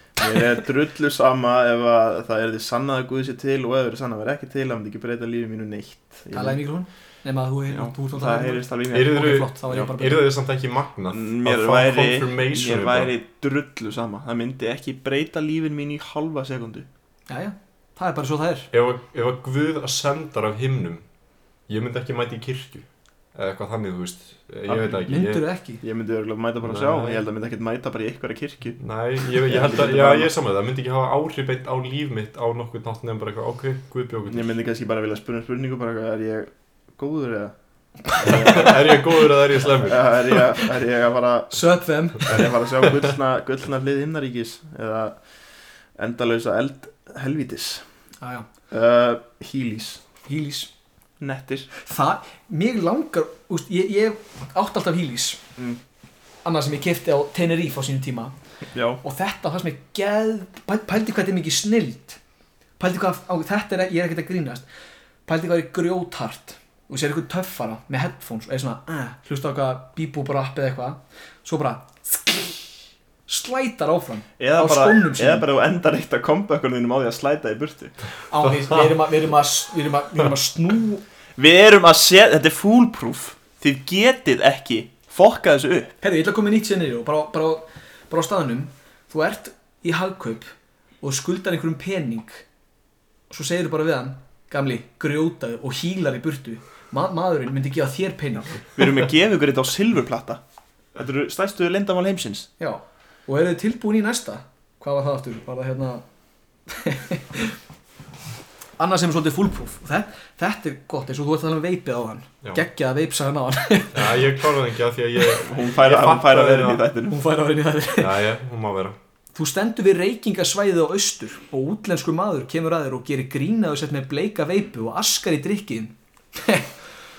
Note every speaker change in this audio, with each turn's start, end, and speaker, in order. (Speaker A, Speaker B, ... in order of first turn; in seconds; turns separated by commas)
Speaker A: 0.2-6.6, Speaker B: 6.3-10.2, Speaker A: 7.7-9.2, Speaker C: 8.9-13.1, Speaker A: 11.1-16.9, Speaker B: 17.3-18.7, Speaker C: 18.7-21.0, Speaker C: 21.7-25.4, Speaker A: 24.7-25.0, Speaker B: 25.1-25.8, Speaker A: 25.8-30.3, Speaker C: 26.6-27.2, Speaker C: 28.8-34.5, Speaker A: 34.3-37.5, Speaker A: 38.1-41.6, Speaker C: 38.2-40.0, Speaker B: 38.2-38.7, Speaker B: 41.5-42.5, Speaker A: 42.2-45.2, Speaker A: 46.0-47.9, Speaker B: 48.2-48.5, Speaker A: 48.7-50.0, Speaker B: 50.2-50.7, Speaker A: 51.2-51.7, Speaker B: 51.8-55.4, Speaker B: 56.4-58.3, Speaker A: 58.7-59.0, Speaker B: 59.0-62.2, Speaker B: 62.8-64.7, Speaker B: 65.3-72.7, Speaker B: 73.3-75.5, Speaker A: 74.4-78.0, Speaker B: 78.3-81.0, Speaker A: 81.4-86.0, Speaker B: 86.0-92.5, Speaker B: 93.3-98.7, Speaker A: 98.8-100.4, Speaker A: 101.0-102.5, Speaker B: 102.6-106.0, Speaker B: 106.7-107.6, Speaker B: 108.8-114.5, Speaker C: 113.9-116.8, Speaker A: 115.5-117.3, Speaker B: 117.1-118.2, Speaker C: 118.0-119.0, Speaker B: 119.4-126.7